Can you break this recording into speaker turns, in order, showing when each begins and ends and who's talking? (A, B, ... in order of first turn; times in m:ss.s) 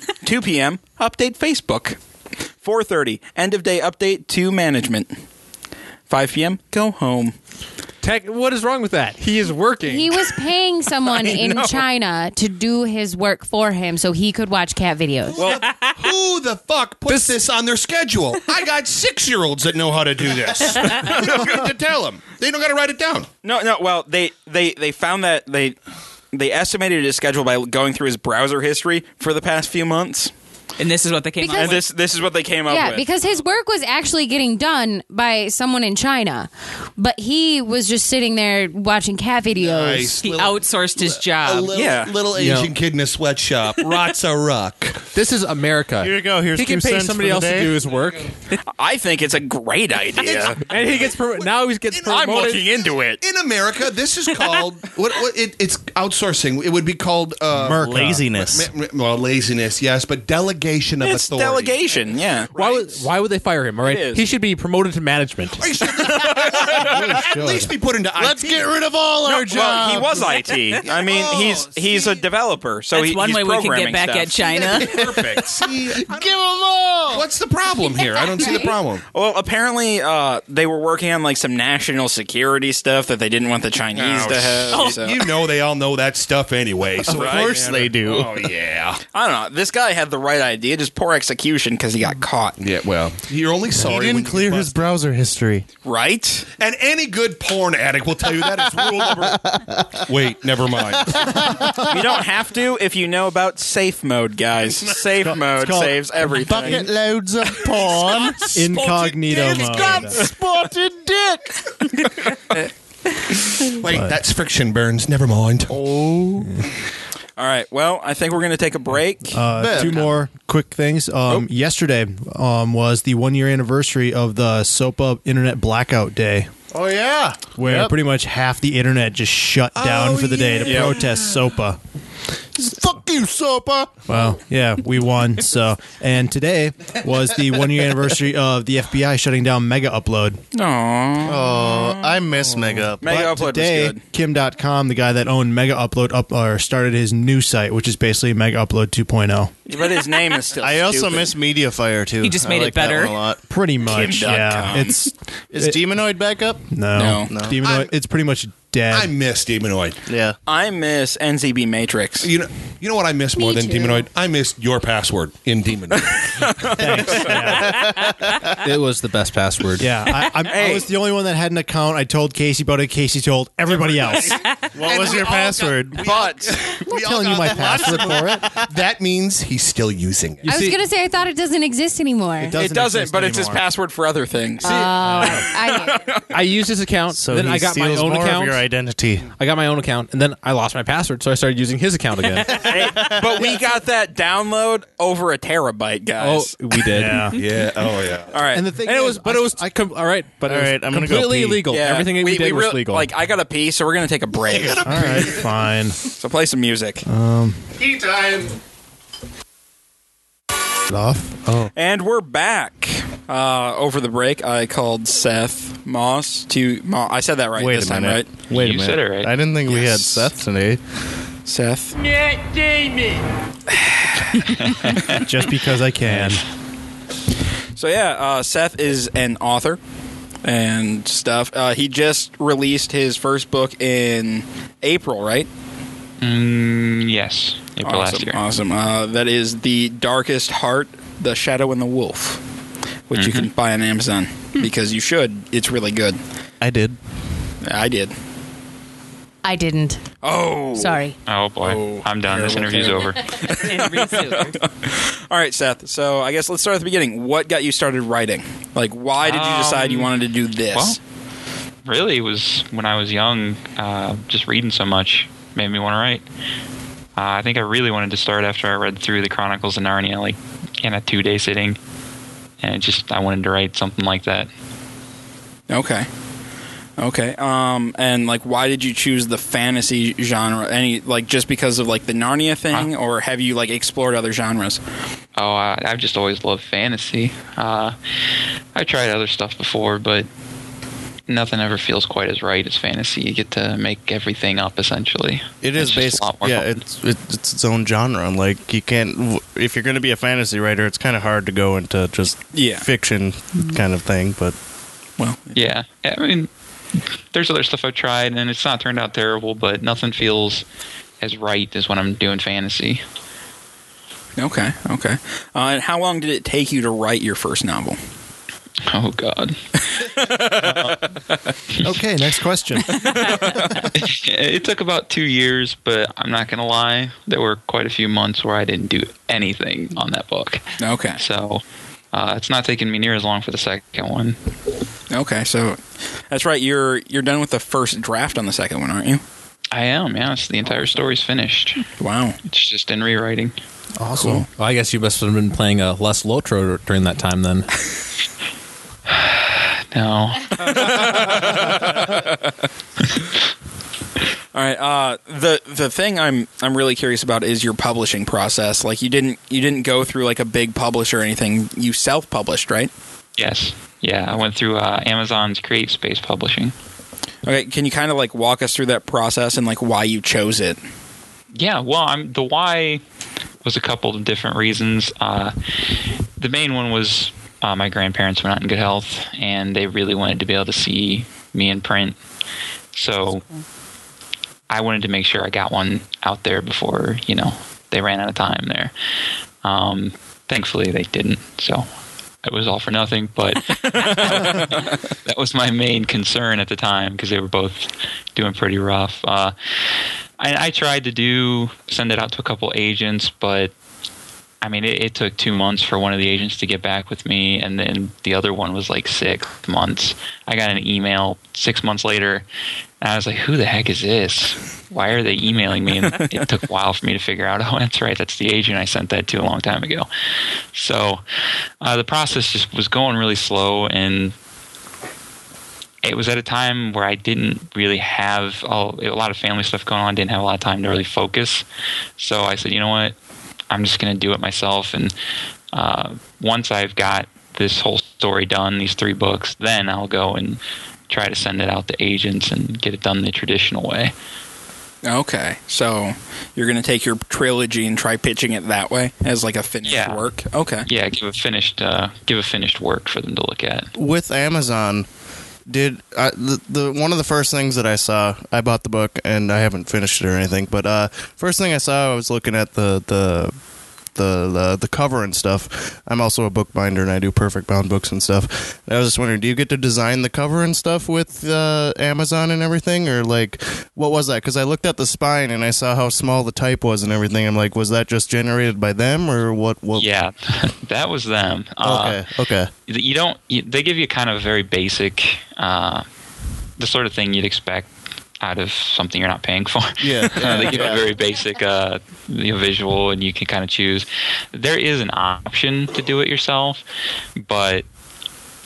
0:00.2-0:02.0 A
0:02.6-0:05.2 A
0:06.1-0:07.3 A
0:08.0-0:10.2 B
0:09.8-0:15.4 C
0:11.1-0:11.8 A
0:15.3-0:23.3 D
0:15.4-0:15.6 A
0:17.0-0:17.4 B
0:21.1-0:21.5 A
0:23.4-0:25.8 A
0:26.3-0:30.3 A
0:30.8-0:31.8 E
0:31.4-0:31.8 C
0:31.5-0:33.1 A
0:32.7-0:40.2 C
0:39.6-0:45.1 D
0:40.2-0:41.8 E
0:41.7-0:42.1 A
0:42.3-0:42.7 B
0:45.1-0:48.3 B
0:46.0-0:47.7 F
0:48.7-0:50.6 A
0:50.2-0:51.2 D
0:50.6-0:52.6 B
0:51.9-0:52.5 D
0:52.1-0:53.2 A
0:53.1-1:01.8 D
0:57.6-0:58.7 F
0:57.6-0:58.2 G
1:01.0-1:03.0 A
1:02.6-1:05.6 B
1:03.8-1:04.2 A
1:05.6-1:08.7 D
1:06.1-1:06.9 A
1:06.9-1:07.7 G
1:08.2-1:10.3 F
1:09.2-1:14.5 A
1:10.8-1:12.2 D
1:12.9-1:15.1 E
1:14.4-1:16.3 D
1:14.7-1:17.2 F
1:17.1-1:19.0 D
1:19.1-1:25.2 A
1:23.9-1:29.0 D
1:24.7-1:25.1 E
1:27.0-1:28.5 F
1:27.1-1:27.5 A
1:29.1-1:32.6 A
1:32.6-1:34.8 D
1:33.8-1:35.6 F
1:35.8-1:36.5 A
1:36.6-1:41.5 D
1:38.7-1:40.0 F
1:41.0-1:42.0 F
1:41.8-1:46.8 A
1:44.8-1:45.1 D
1:45.2-1:46.9 G
1:46.3-1:48.7 F
1:47.8-1:50.3 D
1:48.4-1:50.2 G
1:49.4-1:51.5 F
1:53.5-1:55.8 D
1:53.9-1:54.1 G
1:55.7-1:56.5 F
1:57.4-2:00.1 A
1:59.3-2:06.5 G
1:59.5-2:00.0 F
2:06.7-2:08.0 F
2:07.6-2:11.8 G
2:09.8-2:11.4 D
2:10.6-2:10.9 A
2:12.6-2:14.0 F
2:14.1-2:20.4 G
2:20.5-2:22.2 A
2:21.2-2:23.2 F
2:22.9-2:29.6 G
2:23.0-2:24.0 A
2:29.6-2:31.3 A
2:30.6-2:33.4 F
2:32.2-2:33.2 E
2:33.5-2:35.8 G
2:33.8-2:35.0 A
2:35.5-2:37.6 F
2:36.7-2:39.1 G
2:36.9-2:37.3 A
2:37.6-2:37.9 D
2:38.9-2:40.0 D
2:40.1-2:40.3 F
2:40.5-2:42.3 A
2:42.2-2:46.8 D
2:43.4-2:44.0 C
2:46.0-2:47.3 A
2:46.7-2:47.8 G
2:47.4-2:48.5 F
2:48.6-2:50.0 B
2:49.8-2:54.4 G
2:53.7-3:00.4 D
2:54.7-2:56.0 F
2:56.0-2:56.5 A
2:56.9-2:58.5 G
3:00.4-3:00.8 B
3:00.4-3:02.5 C
3:02.4-3:03.6 G
3:02.5-3:04.9 A
3:04.6-3:06.1 C
3:04.8-3:05.5 G
3:05.7-3:06.2 A
3:06.3-3:08.6 B
3:07.1-3:09.3 F
3:09.4-3:12.9 B
3:12.5-3:16.5 A
3:16.2-3:17.3 B
3:16.9-3:17.4 G
3:17.3-3:18.4 D
3:18.3-3:18.6 A
3:18.5-3:19.8 G
3:18.7-3:23.1 B
3:20.4-3:21.6 F
3:21.7-3:25.2 A
3:24.5-3:25.5 D
3:24.8-3:26.0 G
3:26.1-3:27.0 A
3:27.0-3:27.7 G
3:27.8-3:28.5 F
3:30.9-3:31.7 G
3:31.7-3:38.3 A
3:37.6-3:40.8 F
3:38.5-3:39.3 H
3:39.7-3:40.3 A
3:41.4-3:42.0 A
3:43.7-3:44.4 A
3:44.4-3:45.2 H
3:44.8-3:46.4 G
3:47.8-3:49.8 A
3:50.4-3:55.5 A
3:56.2-3:58.4 H
3:57.8-4:02.4 A
4:03.1-4:06.2 A
4:03.1-4:03.5 H
4:06.6-4:07.0 F
4:07.6-4:08.1 A
4:09.4-4:10.1 C
4:10.2-4:11.0 A
4:10.7-4:11.2 C
4:11.2-4:13.3 H
4:11.6-4:21.0 A
4:13.4-4:14.6 E
4:19.2-4:20.1 H
4:20.7-4:21.0 H
4:21.8-4:26.2 H
4:27.2-4:31.8 H
4:32.6-4:34.5 H
4:35.7-4:36.1 A
4:37.0-4:44.8 A
4:45.4-4:47.9 H
4:48.7-4:50.3 H
4:51.3-4:56.8 H
4:55.6-5:04.5 F
5:02.5-5:02.8 A
5:05.2-5:05.7 A
5:05.5-5:06.5 H
5:07.3-5:10.6 H
5:11.2-5:13.0 H
5:14.4-5:18.0 A
5:18.8-5:19.6 H
5:19.9-5:21.0 A
5:21.8-5:23.7 G
5:23.1-5:23.7 A
5:23.8-5:30.6 H
5:30.8-5:31.2 A
5:31.2-5:34.4 H
5:35.1-5:39.2 A
5:39.7-5:41.8 H
5:42.0-5:42.4 A
5:42.4-5:43.5 H
5:44.0-5:44.4 G
5:44.2-5:44.4 A
5:44.2-5:47.7 B
5:49.1-5:51.1 H
5:50.6-5:52.4 A
5:54.5-6:02.9 A
6:03.4-6:06.7 H
6:07.4-6:10.8 A
6:11.5-6:13.0 H
6:13.6-6:15.5 H
6:16.4-6:22.2 H
6:22.9-6:23.4 H
6:24.7-6:28.9 H
6:29.6-6:31.9 H
6:32.4-6:39.5 H
6:33.8-6:35.0 A
6:40.4-6:43.7 H
6:44.6-6:52.4 H
6:53.0-7:00.1 H
7:00.7-7:01.2 H
7:01.8-7:04.3 H
7:06.0-7:11.6 H
7:12.2-7:13.1 H
7:13.7-7:15.1 H
7:15.7-7:24.1 H
7:25.0-7:30.9 A
7:29.8-7:30.2 H
7:30.8-7:33.9 H
7:33.9-7:35.1 F
7:35.7-7:43.5 F
7:44.1-8:00.1 F
7:59.9-8:02.2 H
8:01.8-8:02.7 F
8:02.9-8:06.0 H
8:06.8-8:07.9 H
8:08.4-8:16.8 H
8:10.0-8:11.1 F
8:17.4-8:17.8 H